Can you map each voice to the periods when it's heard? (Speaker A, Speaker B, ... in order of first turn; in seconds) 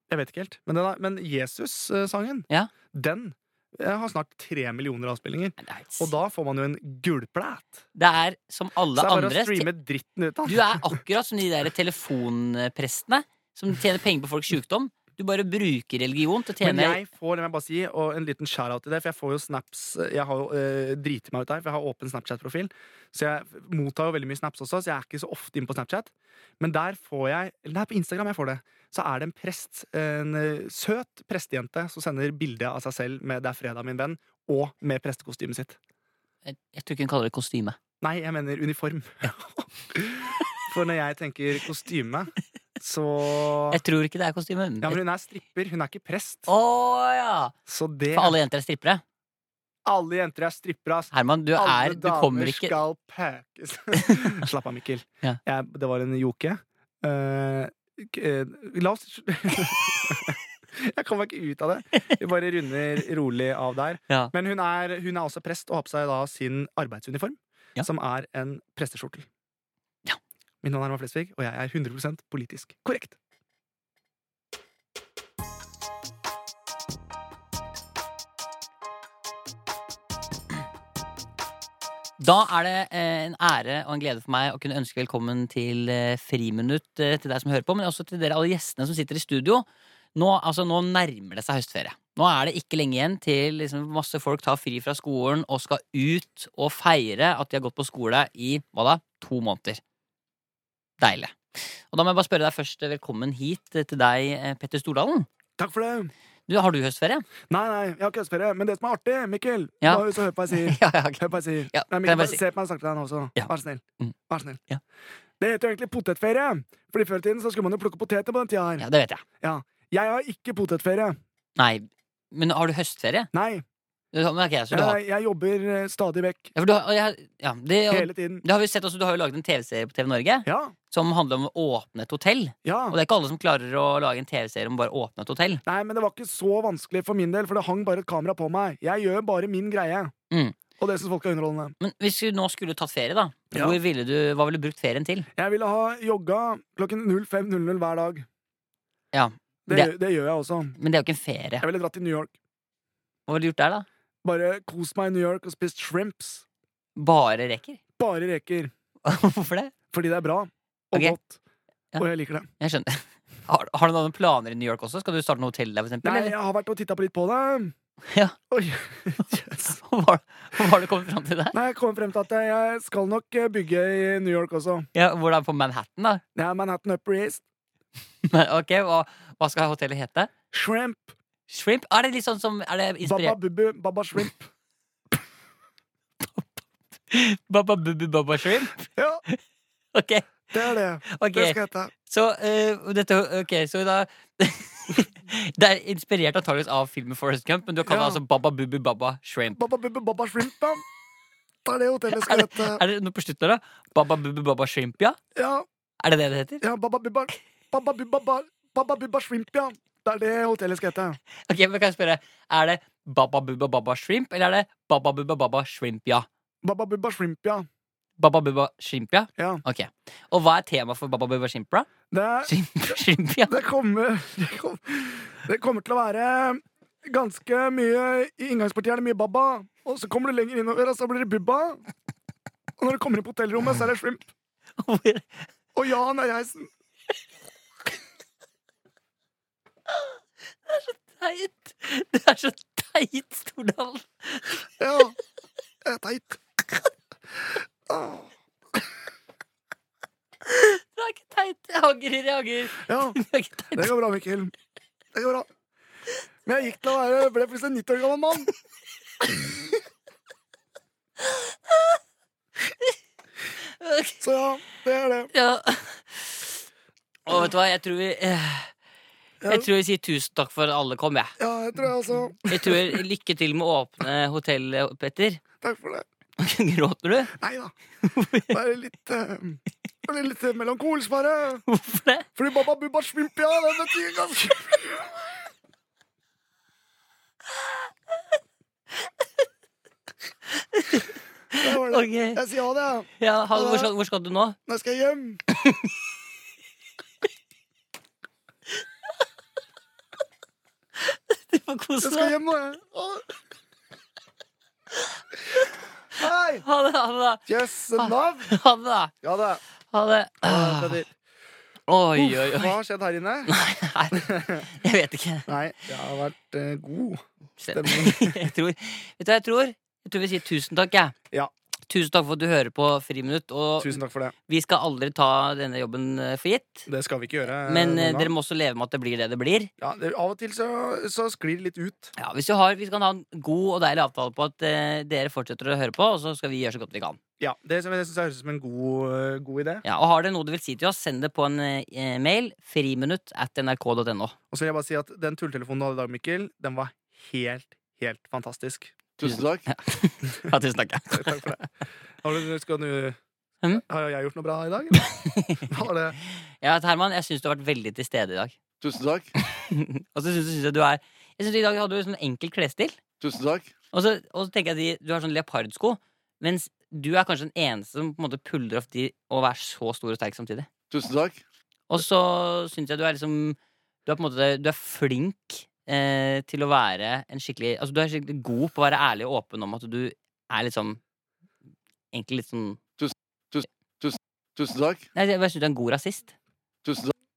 Speaker A: 0.1-7.8, 8.9-11.0, 16.6-35.8, 38.0-43.8, 44.8-46.5, 47.7-48.4, 49.9-69.3, 70.6-73.2, 105.6-106.1, 107.5-114.6, 115.4-118.8, 119.4-121.2, 123.3-123.6, 124.7-126.5, 127.9-128.4, 130.4-130.8, 132.7-133.0, 135.7-140.1, 140.8-141.8, 143.5-143.8, 145.4-148.3, 149.7-150.8, 151.6-152.3, 154.2-156.4, 158.0-158.7, 159.9-161.4, 162.0-162.5, 166.0-167.7, 168.5-169.8, 171.5-174.9, 176.3-177.4, 180.5-181.1, 183.0-184.5, 188.9-189.2, 190.5-191.9, 197.9-198.2, 199.5-200.8, 201.7-202.8, 205.3-205.7, 206.6-211.2, 216.6-217.7, 219.4-219.6, 222.1-222.5, 223.5-231.8, 232.8-234.3, 235.8-236.7, 244.8-245.2, 245.8-246.4, 247.9-248.3, 252.8-254.5, 255.1-255.5, 256.5-258.5, 264.2-265.3, 269.4-269.7, 271.4-273.0, 275.6-276.1, 277.4-277.7, 278.5-281.6, 282.4-285.1, 291.6-293.9, 294.7-295.4, 302.0-303.3, 306.2-306.6, 307.5-308.6, 309.2-309.6, 310.4-311.1, 312.2-313.5, 314.1-314.7, 315.5-318.5, 323.8-324.3, 326.9-328.3, 329.8-332.1, 337.4-339.8, 344.5-349.0, 351.1-351.7, 352.2-353.2, 353.8-355.1, 355.7-356.2
Speaker B: 5.6-6.1, 8.0-9.7, 10.5-17.0, 36.5-37.8, 43.7-45.0, 46.5-47.5, 48.1-49.0, 51.1-52.8, 54.0-54.4, 82.2-99.8, 101.0-105.3, 106.5-107.3, 109.8-112.4, 113.4-114.2, 118.8-119.2, 121.6-123.3, 124.1-125.0, 126.5-135.6, 140.3-140.6, 141.8-145.3, 149.1-149.9, 150.8-151.7, 153.3-153.9, 157.0-157.8, 159.1-159.7, 162.6-166.4, 168.1-168.4, 169.8-171.6, 174.9-176.2, 178.3-180.3, 181.5-183.4, 186.2-189.4, 189.9-199.6, 202.1-205.2, 206.0-206.6, 211.5-216.3, 218.2-221.9, 222.5-223.5, 234.8-235.5, 240.7-244.6, 250.5-253.9, 261.3-261.9, 263.8-264.1, 265.3-266.5, 267.3-268.7, 269.5-271.4, 272.5-275.4, 276.4-277.3, 278.0-278.6, 281.7-282.3, 290.6-292.4, 293.2-294.6, 295.6-295.9, 301.0-302.4, 306.6-307.4, 308.0-309.1, 309.9-311.0, 311.9-312.7, 313.5-315.5, 317.6-321.1, 321.9-326.9, 327.6-329.7, 332.2-337.2, 339.8-344.4, 349.2-351.6, 355.0-358.6, 359.4-363.0, 363.9-370.7, 371.9-381.0, 382.1-382.8, 385.1-386.3
Speaker C: 349.2-349.7, 358.8-359.3, 363.2-363.7, 370.9-371.4, 383.0-385.1, 386.8-387.1